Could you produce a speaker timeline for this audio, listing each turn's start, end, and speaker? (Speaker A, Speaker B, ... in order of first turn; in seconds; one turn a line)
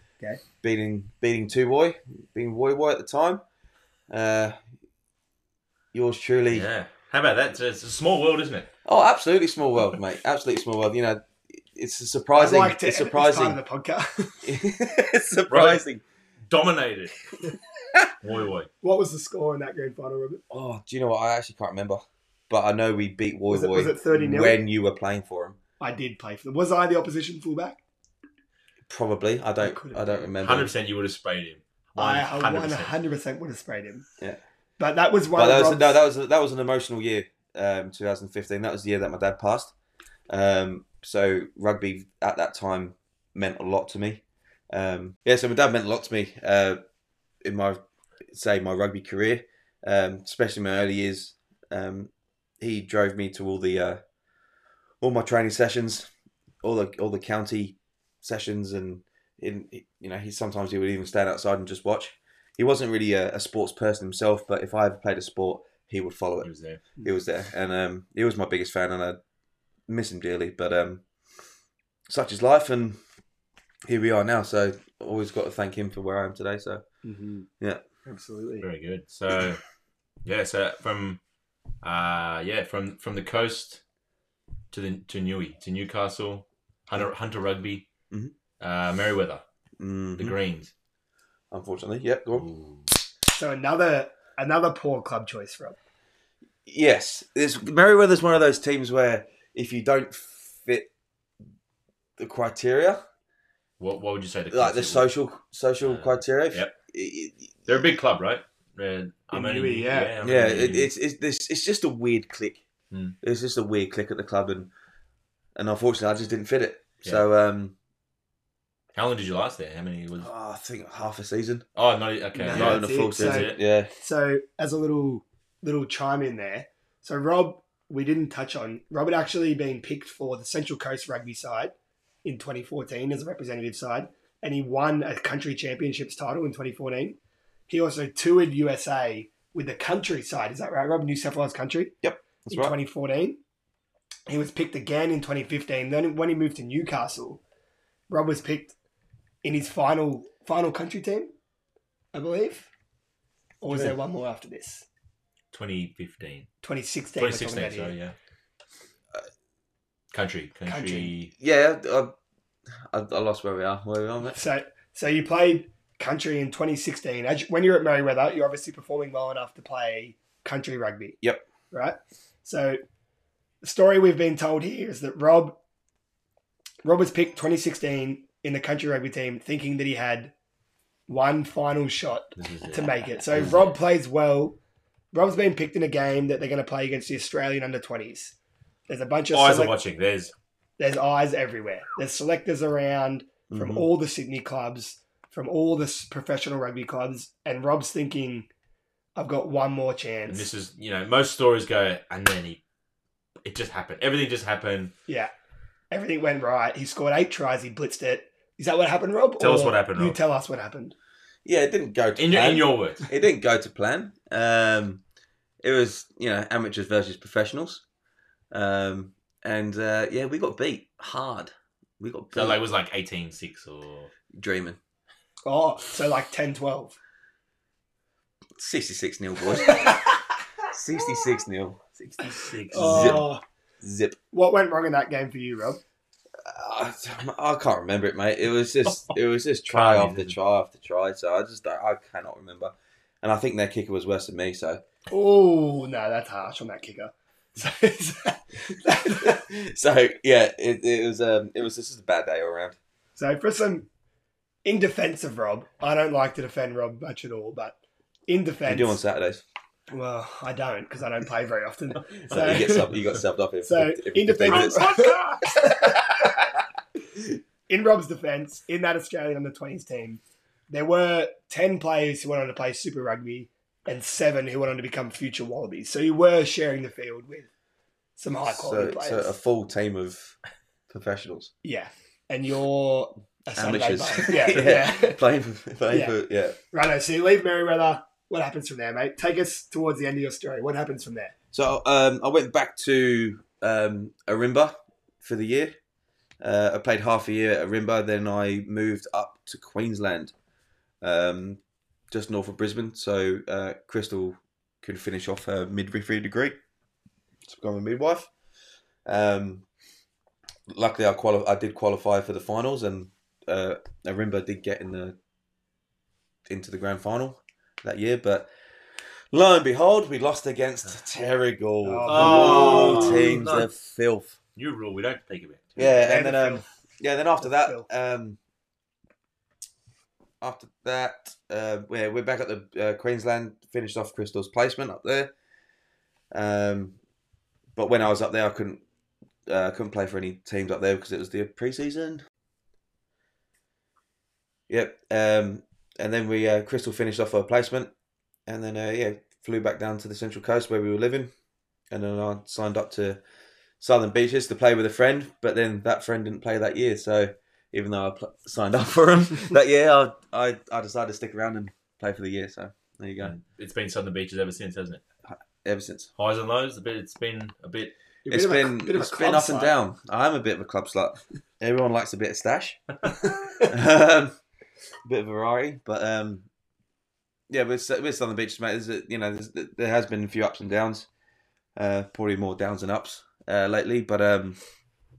Speaker A: 0.6-3.4
Speaker A: 4.1-4.6
Speaker A: 5.9-6.7
Speaker B: 6.5-8.7
Speaker A: 8.8-13.6
Speaker C: 12.3-14.5
Speaker A: 14.4-16.0
Speaker B: 15.5-15.8
Speaker B: 16.5-17.2
Speaker B: 18.2-18.7
Speaker C: 18.8-20.4
Speaker A: 20.5-25.6
Speaker C: 23.5-24.6
Speaker C: 25.8-27.8
Speaker A: 28.9-30.7
Speaker C: 29.6-30.3
Speaker B: 30.4-32.9
Speaker C: 32.0-34.0
Speaker C: 34.8-35.9
Speaker A: 35.3-39.7
Speaker A: 40.3-46.8
Speaker A: 47.4-54.0
Speaker A: 55.0-56.1
Speaker A: 56.6-66.5
Speaker B: 66.4-66.8
Speaker A: 67.0-69.2
Speaker A: 69.9-71.0
Speaker A: 72.1-73.0
Speaker A: 73.9-76.8
Speaker C: 77.0-77.5
Speaker C: 78.0-78.7
Speaker B: 78.6-79.6
Speaker B: 80.2-81.2
Speaker B: 81.8-83.8
Speaker B: 84.7-87.9
Speaker B: 88.6-89.4
Speaker A: 89.8-90.3
Speaker B: 90.2-90.7
Speaker A: 91.5-92.5
Speaker B: 92.3-92.9
Speaker C: 93.3-95.8
Speaker A: 96.7-100.9
Speaker A: 102.2-103.0
Speaker B: 103.8-105.1
Speaker A: 104.5-107.7
Speaker B: 105.8-106.7
Speaker B: 107.7-110.9
Speaker C: 109.3-110.1
Speaker A: 110.2-112.6
Speaker B: 112.9-113.2
Speaker A: 113.2-114.7
Speaker A: 115.5-117.8
Speaker B: 118.9-120.3
Speaker A: 120.2-121.6
Speaker B: 121.8-123.6
Speaker C: 122.3-131.7
Speaker A: 122.5-123.9
Speaker C: 132.2-137.2
Speaker C: 137.7-141.9
Speaker A: 142.0-142.8
Speaker C: 142.5-143.4
Speaker C: 144.3-147.4
Speaker C: 148.1-148.7
Speaker C: 149.4-151.3
Speaker C: 152.1-152.7
Speaker C: 153.6-154.8
Speaker B: 155.5-156.5
Speaker C: 156.6-157.9
Speaker B: 157.2-158.1
Speaker B: 160.1-161.3
Speaker C: 160.7-161.1
Speaker A: 161.4-162.1
Speaker A: 162.9-164.4
Speaker C: 164.2-171.2
Speaker C: 171.7-172.8
Speaker C: 173.6-175.6
Speaker C: 176.8-180.3
Speaker C: 181.1-184.6
Speaker B: 182.4-183.7
Speaker C: 185.1-188.3
Speaker C: 188.9-189.8
Speaker B: 189.3-190.3
Speaker C: 190.8-198.5
Speaker A: 193.5-193.8
Speaker C: 199.2-200.5
Speaker B: 200.3-202.6
Speaker B: 203.4-204.9
Speaker C: 205.9-210.9
Speaker B: 209.4-210.2
Speaker A: 211.4-215.0
Speaker B: 212.2-213.1
Speaker A: 215.6-217.8
Speaker A: 218.5-222.6
Speaker B: 222.3-224.1
Speaker A: 224.3-224.8
Speaker C: 225.4-226.9
Speaker A: 228.6-230.0
Speaker A: 230.7-233.3
Speaker B: 232.2-233.3
Speaker C: 232.7-233.4
Speaker A: 233.8-234.2
Speaker C: 234.3-235.8
Speaker A: 236.4-244.8
Speaker B: 239.7-240.3
Speaker C: 245.1-249.4
Speaker A: 249.2-252.8
Speaker C: 253.2-253.9
Speaker C: 254.6-259.0
Speaker A: 258.6-259.4
Speaker C: 259.9-262.9
Speaker A: 262.3-265.1
Speaker C: 263.6-266.2
Speaker B: 264.5-265.3
Speaker C: 267.7-277.5
Speaker C: 278.2-279.3
Speaker A: 278.4-280.4
Speaker A: 280.9-281.5
Speaker C: 281.6-285.2
Speaker A: 283.6-286.6
Speaker C: 285.9-286.1
Speaker C: 286.7-291.3
Speaker A: 291.5-295.7
Speaker A: 296.4-300.3
Speaker A: 301.0-301.6
Speaker A: 302.1-306.6
Speaker A: 307.4-308.3
Speaker A: 309.1-309.6
Speaker A: 310.7-315.1
Speaker A: 316.5-318.5
Speaker A: 319.3-324.3
Speaker C: 321.8-323.3
Speaker B: 322.1-323.7
Speaker B: 324.6-325.9
Speaker A: 325.8-328.4
Speaker C: 325.9-326.6
Speaker C: 327.4-327.9
Speaker A: 330.4-335.3
Speaker A: 336.3-337.0
Speaker A: 337.8-338.8
Speaker A: 339.5-342.2
Speaker A: 344.7-347.9
Speaker A: 348.5-351.3
Speaker A: 351.9-353.2
Speaker A: 353.8-363.4
Speaker B: 363.2-365.0
Speaker A: 365.3-366.1
Speaker B: 366.2-367.9
Speaker C: 368.2-369.8
Speaker A: 368.3-372.8
Speaker C: 373.4-373.7
Speaker A: 373.6-374.3
Speaker A: 375.1-376.4
Speaker A: 377.5-381.1
Speaker A: 381.8-384.6